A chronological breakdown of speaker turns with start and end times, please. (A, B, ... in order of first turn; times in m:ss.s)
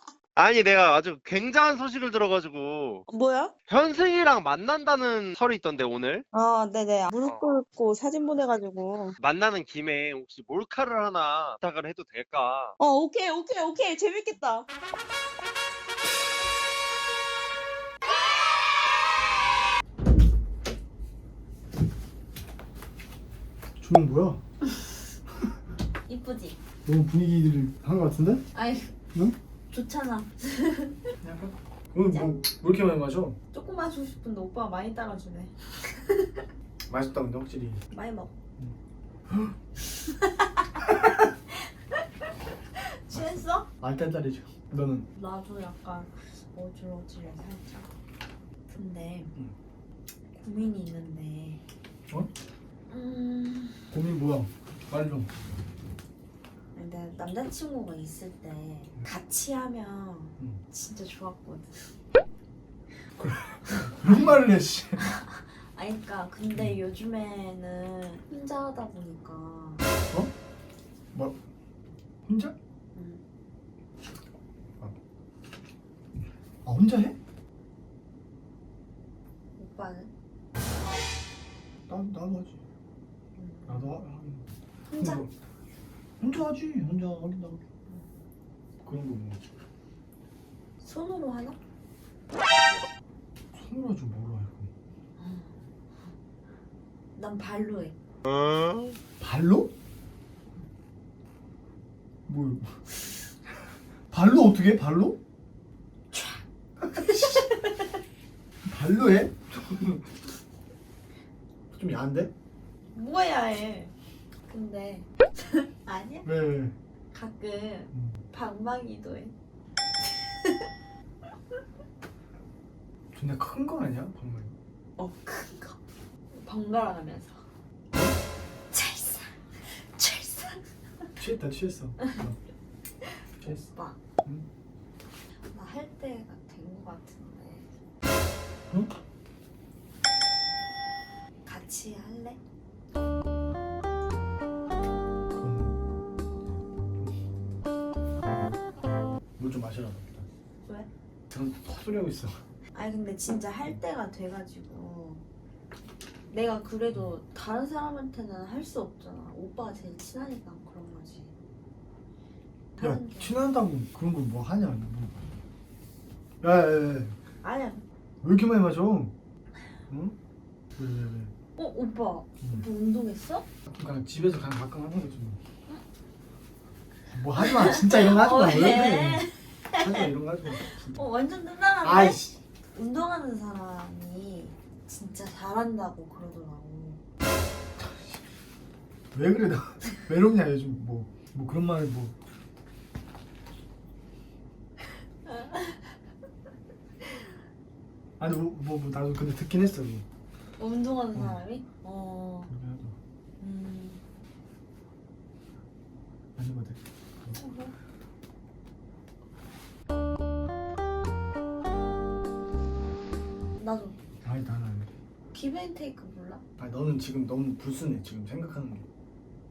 0:00.4-0:03.0 A
0:03.1-0:03.5 B
0:03.7-0:06.2 A
0:06.3-0:09.2 B
0:07.2-0:07.5 A
0:09.2-0:12.8 A
0:12.8-0:14.7 B
0:23.8-0:24.4 C
0:26.1-0:26.6 D
0:26.8-0:28.4 C
0:28.5-0:28.9 D
0:29.7-0:31.0 D
0:31.2-0:33.4 C
0:33.5-0:36.4 D
0:36.9-0:37.8 C
0:37.9-0:38.3 D
0:39.3-0:39.5 C
0:40.1-0:41.0 D
0:40.8-0:41.2 C
0:43.1-0:43.7 D
0:43.1-0:45.1 C
0:45.1-0:47.9 D
0:48.7-0:49.4 D
0:50.3-0:51.6 D
0:52.9-0:53.9 D
0:53.9-0:55.3 C
0:56.7-1:01.9 D
1:03.2-1:05.1 C
1:03.8-1:04.2 D
1:05.0-1:09.8 D
1:12.3-1:12.6 C
1:12.9-1:13.2 D
1:16.6-1:17.2 C
1:19.6-1:20.1 D
1:21.9-1:22.6 C
1:23.4-1:23.9 D
1:23.7-1:24.5 C
1:24.9-1:25.3 D
1:25.0-1:25.3 C
1:26.2-1:27.6 C
1:28.8-1:29.4 C
1:30.8-1:31.6 D
1:33.5-1:34.7 C
1:35.2-1:35.6 D
1:37.2-1:38.0 D
1:38.3-1:38.9 A
1:39.2-1:39.7 C
1:42.3-1:42.8 C
1:44.1-1:45.2 C
1:46.1-1:47.9 D
1:47.0-1:47.4 C
1:48.6-1:50.0 C
1:51.7-1:52.3 C
1:52.9-1:53.9 D
1:54.5-1:56.3 D
1:56.2-1:56.7 C
1:57.1-1:59.3 D
1:57.9-1:58.2 C
2:03.1-2:04.6 C
2:05.0-2:05.8 D
2:06.3-2:07.4 D
2:08.7-2:10.6 D
2:11.2-2:12.4 C
2:13.0-2:14.0 D
2:13.4-2:13.7 C
2:15.5-2:17.7 D
2:21.5-2:22.4 D
2:25.3-2:25.8 C
2:29.4-2:30.3 C
2:31.3-2:32.4 C
2:32.7-2:35.2 D
2:36.3-2:41.4 D
2:42.8-2:43.4 D
2:42.8-2:45.2 C
2:46.4-2:47.2 C
2:47.4-2:47.8 D
2:48.2-2:49.1 C
2:49.9-2:50.2 C
2:50.8-2:51.3 C
2:51.6-2:53.4 D
2:53.7-2:55.4 C
2:57.1-3:01.0 C
2:57.4-3:02.2 D
3:01.8-3:02.4 C
3:02.7-3:07.0 D
3:07.8-3:08.2 C
3:09.1-3:12.2 C
3:15.3-3:15.9 D
3:18.2-3:20.0 C
3:20.6-3:22.5 D
3:21.1-3:21.4 C
3:22.5-3:23.0 C
3:23.4-3:24.0 D
3:26.4-3:27.4 C
3:27.4-3:27.7 D
3:33.6-3:34.0 D
3:34.2-3:34.9 C
3:35.3-3:36.4 D
3:36.6-3:38.9 C